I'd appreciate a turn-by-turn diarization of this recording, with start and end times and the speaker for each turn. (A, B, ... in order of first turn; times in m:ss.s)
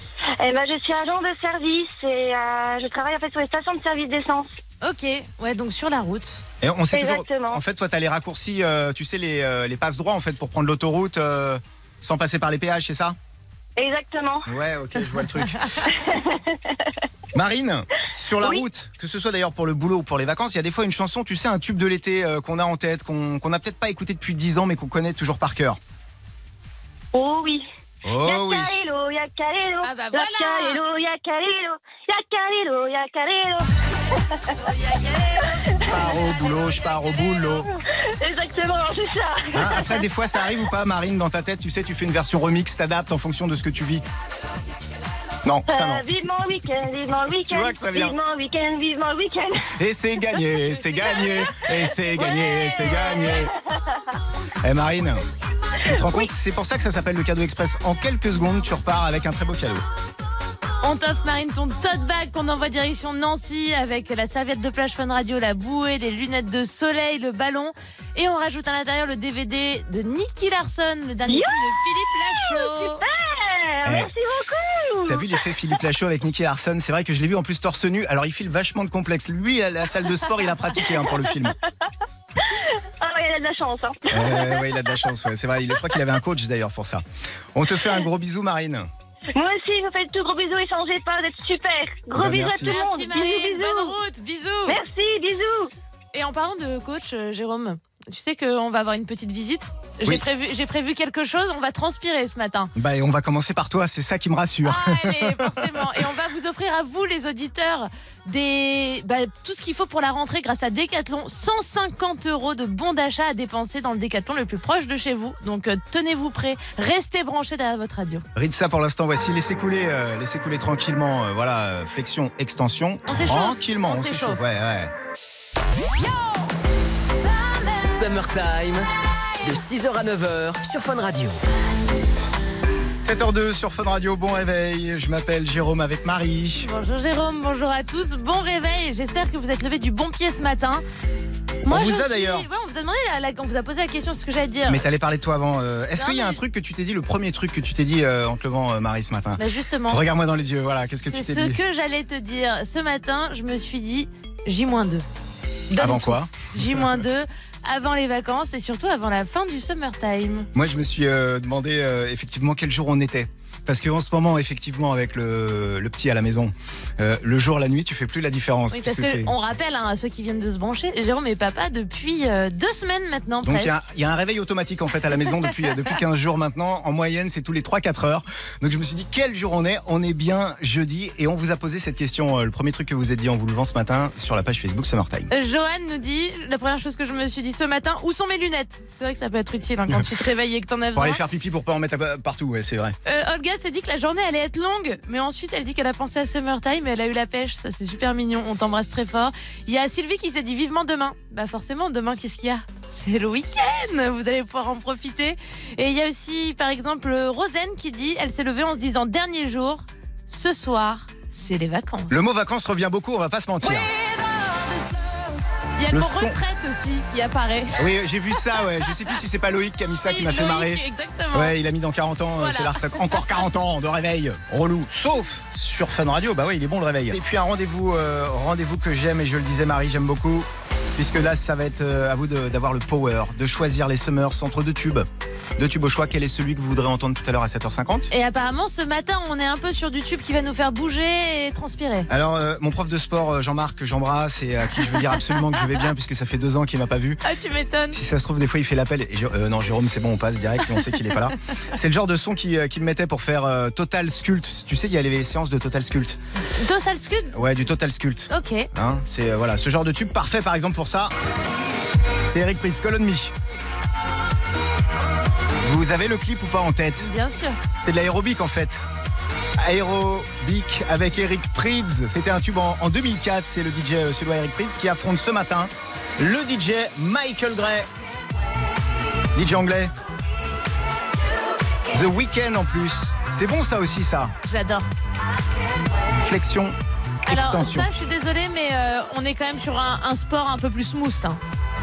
0:00.4-0:04.5 A
0:04.8-0:06.4 B
0:06.6-0:13.2 C
0:06.9-0:07.6 A
0:13.8-0:14.5 A
0:14.5-0:15.7 C
0:15.8-0:17.0 A
0:17.3-0:25.8 C
0:27.1-0:27.7 A
0:28.0-0:28.8 C
0:28.2-0:34.6 A
0:29.8-0:30.8 B
0:34.6-0:37.1 B
0:35.7-0:36.1 A
0:35.8-0:37.7 C
0:37.4-0:40.1 A
0:39.5-0:44.0 C
0:45.4-0:46.0 C
0:45.7-0:49.7 A
0:47.5-0:48.2 C
0:49.8-0:53.5 C
0:52.1-0:54.0 A
0:54.6-0:55.2 C
0:55.9-0:59.8 C
0:55.9-0:56.2 A
1:00.8-1:13.0 B
1:11.3-1:11.7 A
1:12.3-1:15.2 A
1:13.8-1:14.1 C
1:15.1-1:21.6 C
1:22.4-1:24.7 A
1:24.1-1:27.0 C
1:27.6-1:28.9 C
1:29.4-1:33.9 A
1:32.2-1:32.8 C
1:32.6-1:34.8 B
1:34.7-1:35.7 A
1:36.1-1:42.7 B
1:42.8-1:45.9 C
1:44.6-1:58.2 B
1:58.4-2:04.9 C
2:03.1-2:04.4 B
2:07.8-2:08.9 D
2:09.4-2:11.4 D
2:13.0-2:16.7 C
2:16.6-2:20.8 B
2:21.6-2:22.5 C
2:21.6-2:24.8 B
2:24.7-2:31.6 C
2:26.0-2:26.4 B
2:29.4-2:30.0 B
2:31.1-2:35.1 B
2:35.7-2:40.5 B
2:35.8-2:36.3 C
2:40.5-2:49.3 C
2:48.7-2:53.8 B
2:53.4-3:05.3 C
3:05.3-3:11.2 B
3:11.0-3:13.0 C
3:13.1-3:32.2 B
3:32.1-3:33.9 C
3:33.7-3:34.8 B
3:35.8-3:37.9 B
3:35.9-3:36.4 C
3:37.8-3:40.8 C
3:40.0-3:41.5 B
3:41.3-3:55.1 C
3:42.4-3:43.4 B
3:55.6-3:58.1 C
3:58.1-4:02.1 B
4:02.1-4:07.2 C
4:07.2-4:08.0 B
4:07.9-4:16.2 C
4:16.5-4:17.3 B
4:17.3-4:21.1 C
4:18.3-4:18.7 B
4:22.3-4:23.3 C
4:25.6-4:27.1 C
4:27.0-4:27.6 B
4:27.8-4:28.8 C
4:29.6-4:37.9 C
4:39.4-4:39.9 C
4:41.9-4:44.3 C
4:44.5-4:44.9 B
4:46.2-4:47.9 C
4:47.3-4:51.4 B